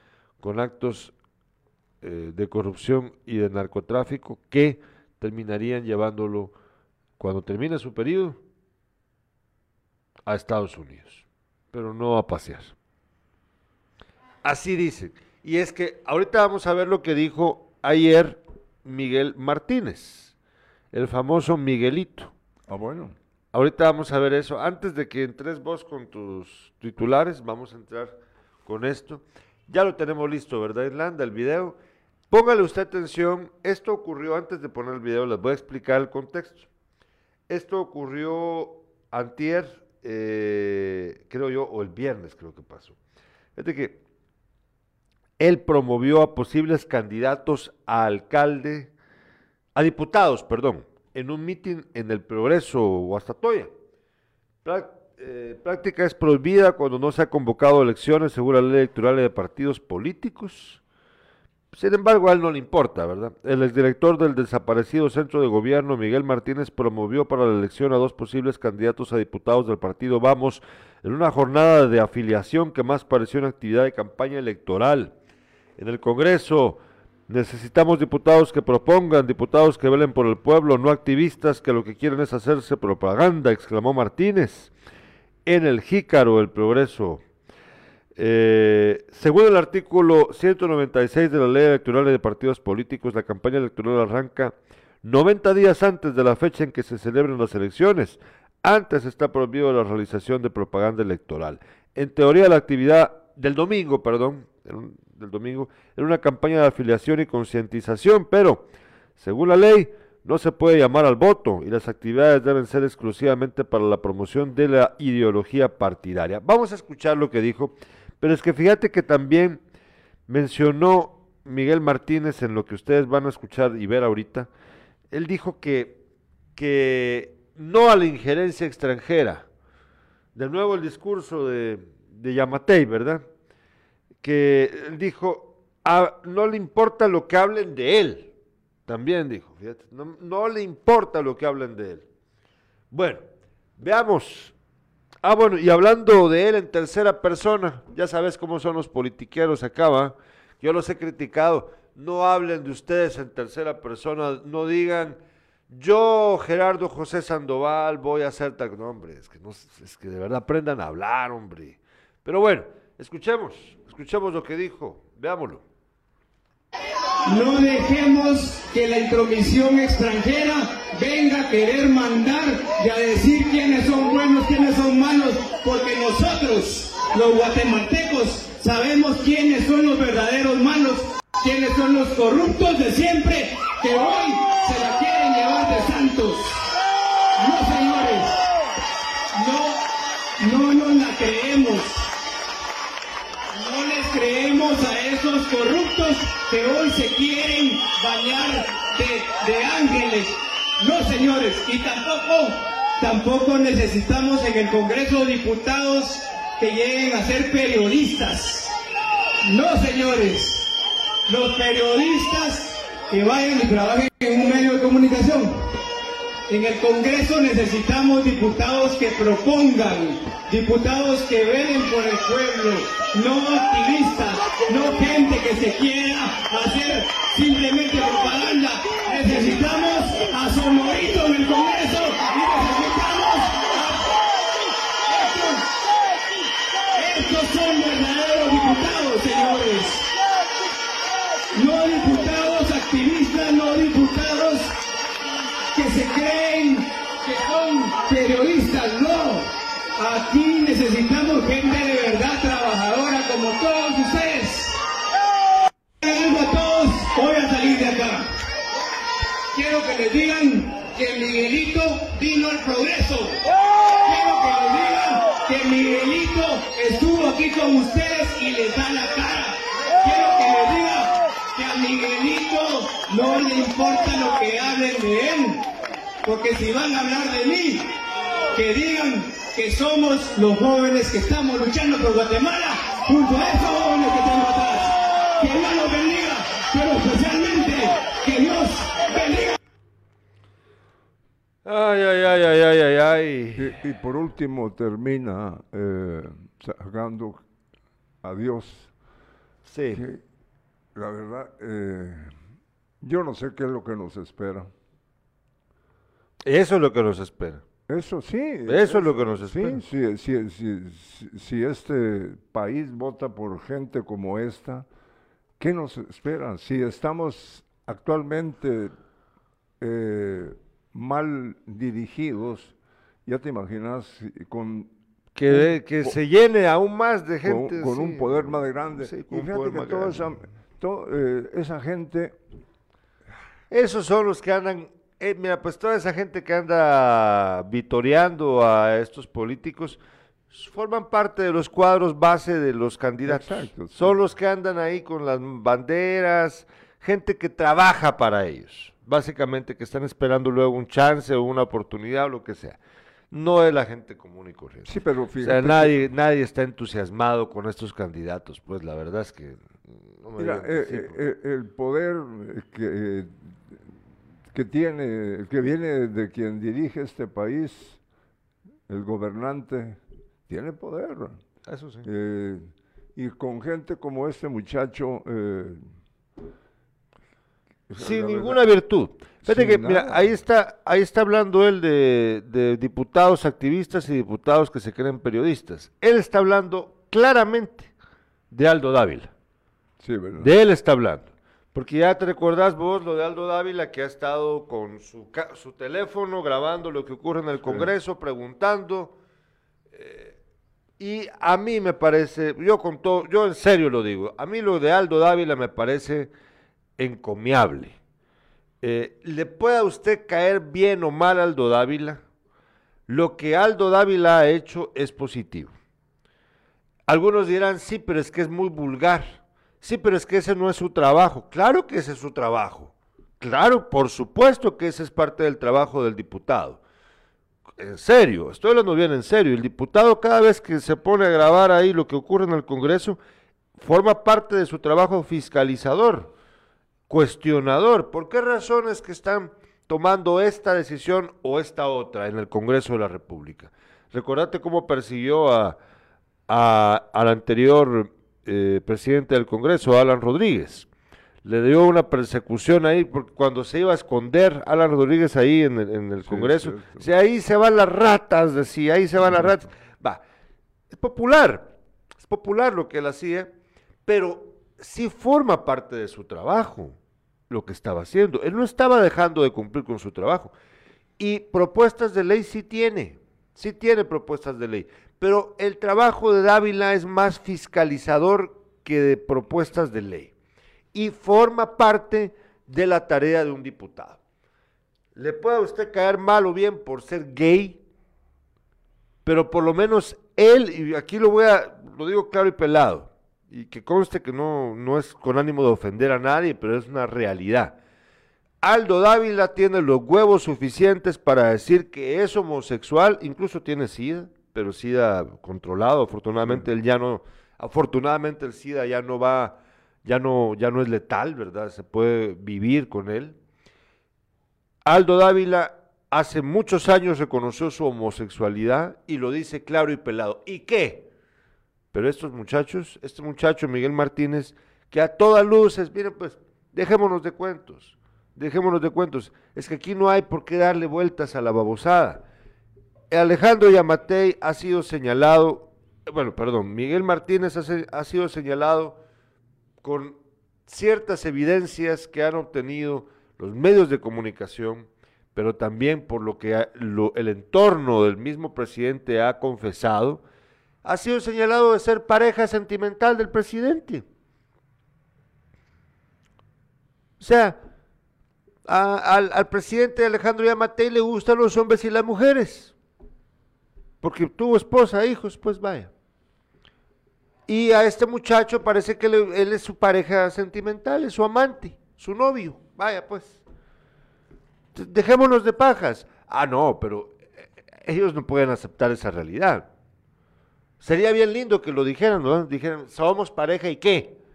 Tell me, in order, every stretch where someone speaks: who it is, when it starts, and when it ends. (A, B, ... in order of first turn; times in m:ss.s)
0:00.4-0:01.1 A
0:02.0-0:06.5 A
0:07.2-0:08.4 A
0:10.3-0:12.8 A
0:14.4-0:20.4 A
0:20.9-0:22.3 A
0:22.7-0:23.2 B
0:23.5-0:31.8 A
0:32.3-0:36.7 A
0:37.5-0:43.0 A
0:43.6-0:44.0 A
0:45.4-0:48.9 A
0:49.8-0:53.7 A
0:54.6-1:00.8 A
1:01.7-1:15.2 A
1:15.8-1:24.7 A
1:25.5-1:27.2 A
1:28.2-1:59.6 A
2:00.3-2:04.5 A
2:05.1-2:06.0 A
2:06.6-2:09.5 A
2:10.4-2:13.3 A
2:14.2-2:18.3 A
2:18.9-2:22.0 A
2:22.9-2:23.2 A
2:23.8-2:24.6 A
2:25.2-2:35.2 A
2:35.7-2:45.6 A
2:47.2-3:06.7 C
3:07.4-3:08.4 C
3:09.3-3:09.8 C
3:10.4-3:12.1 C
3:13.5-3:28.7 C
3:29.4-3:35.7 C
3:36.5-3:54.2 C
3:55.1-3:55.7 C
3:56.9-4:00.1 C
4:01.5-4:04.8 C
4:05.7-4:14.8 C
4:16.0-4:18.3 C
4:19.5-4:23.5 C
4:24.0-4:35.7 C
4:36.2-4:37.9 C
4:38.5-4:49.6 C
4:51.6-4:53.8 A
4:53.6-4:57.4 B
4:58.2-4:58.9 B
4:59.6-5:00.0 A
4:59.9-5:00.2 B
5:01.0-5:02.3 B
5:03.0-5:04.7 B
5:06.4-5:07.6 A
5:07.9-5:14.9 B
5:08.7-5:09.8 A
5:15.6-5:19.0 B
5:19.8-5:22.8 B
5:23.3-5:24.9 B
5:25.4-5:30.2 A
5:25.5-5:26.2 B
5:27.4-5:32.4 B
5:33.7-5:40.0 A
5:40.5-5:52.8 A
5:43.2-5:44.2 B
5:53.3-6:01.2 A
5:54.8-5:56.0 B
6:00.4-6:03.8 B
6:04.5-6:08.0 B
6:08.9-6:11.4 B
6:11.7-6:12.1 A
6:12.0-6:15.8 B
6:17.9-6:18.6 B
6:18.0-6:27.9 A
6:19.4-6:20.4 B
6:28.5-6:29.3 A
6:30.0-6:30.6 B
6:30.4-6:39.1 A
6:37.6-6:37.9 B
6:39.9-6:40.4 A
6:41.0-6:46.3 A
6:47.0-6:48.0 A
6:48.8-6:52.2 A
6:53.1-6:55.7 A
6:57.1-7:06.8 A
7:07.8-7:13.2 A
7:13.8-7:16.3 A
7:17.1-7:25.8 A
7:26.5-7:30.9 A
7:31.4-7:40.2 A
7:36.2-7:37.1 B
7:39.2-7:39.6 B
7:40.9-7:43.5 A
7:44.1-7:47.0 A
7:47.5-7:50.5 A
7:51.2-8:00.3 A
8:00.9-8:04.2 A
8:05.2-8:07.8 A
8:09.2-8:17.8 A
8:18.6-8:33.4 A
8:34.8-8:41.1 A
8:41.9-8:52.2 A
8:53.1-8:59.0 A
8:59.8-9:10.2 A
9:10.8-9:14.0 A
9:17.2-9:17.6 A
9:18.7-9:22.7 A
9:24.0-9:25.9 A
9:27.5-9:33.4 A
9:34.8-9:39.7 A
9:40.8-9:44.2 A